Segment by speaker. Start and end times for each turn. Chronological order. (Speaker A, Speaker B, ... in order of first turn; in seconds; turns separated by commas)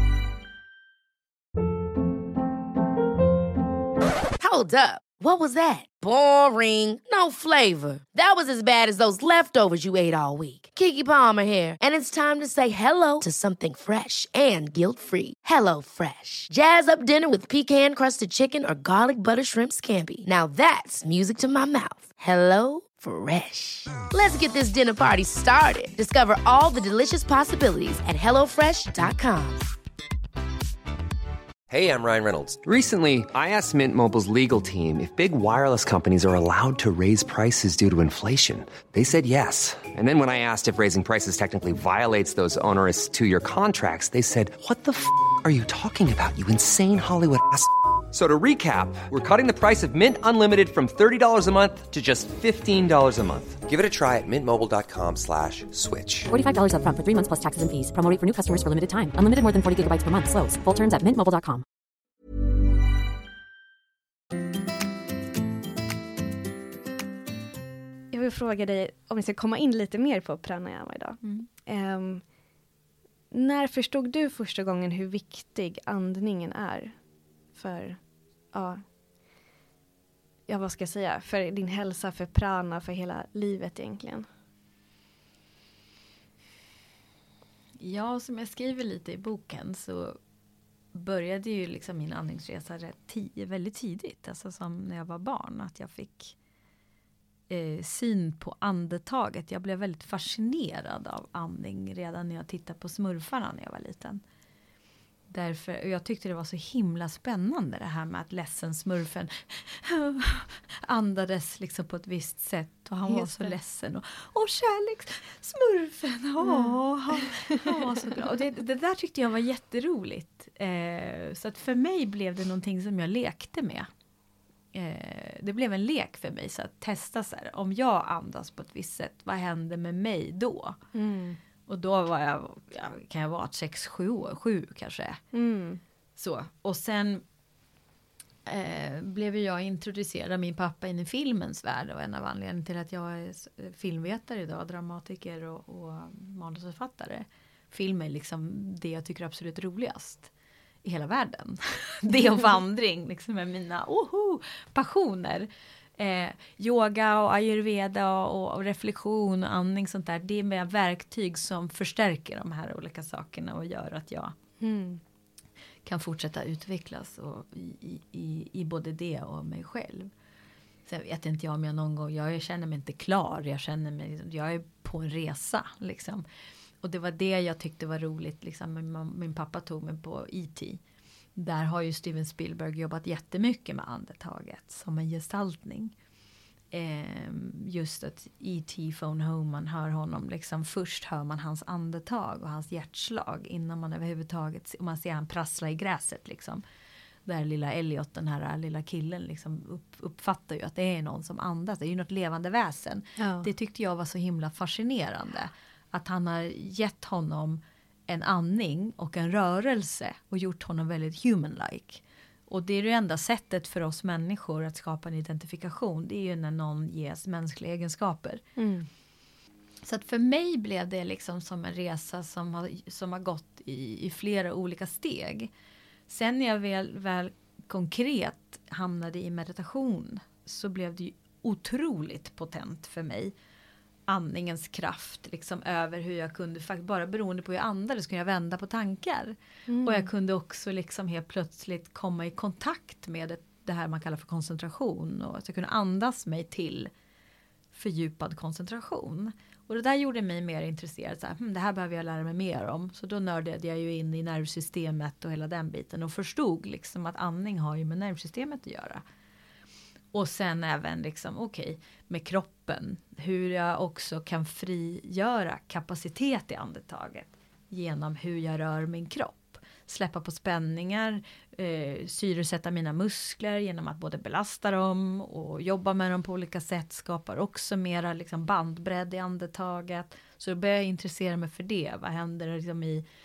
Speaker A: 4.4-29.7, Speaker B: 31.7-56.3, Speaker C: 56.3-61.6, Speaker D: 68.1-72.2, Speaker D: 73.3-77.0, Speaker D: 77.5-78.0, Speaker D: 78.5-78.8, Speaker D: 80.5-84.3, Speaker E: 87.8-90.2, Speaker E: 90.9-96.3, Speaker E: 97.5-104.2, Speaker E: 105.3-123.9, Speaker D: 113.1-113.5, Speaker D: 116.4-118.1, Speaker E: 124.7-130.8, Speaker D: 130.9-131.4, Speaker E: 131.7-135.2, Speaker D: 135.3-135.8, Speaker E: 136.2-137.2, Speaker E: 138.4-150.3, Speaker E: 150.8-164.3, Speaker D: 164.6-165.0, Speaker E: 165.8-170.1, Speaker E: 170.8-176.2, Speaker E: 176.8-180.8, Speaker E: 181.3-185.9, Speaker E: 186.7-196.6, Speaker E: 197.2-218.4, Speaker D: 203.2-203.5, Speaker D: 218.6-218.9, Speaker E: 219.8-225.5, Speaker E: 226.1-233.3, Speaker E: 234.1-246.9, Speaker D: 239.7-240.1, Speaker E: 247.7-259.0, Speaker E: 260.1-283.0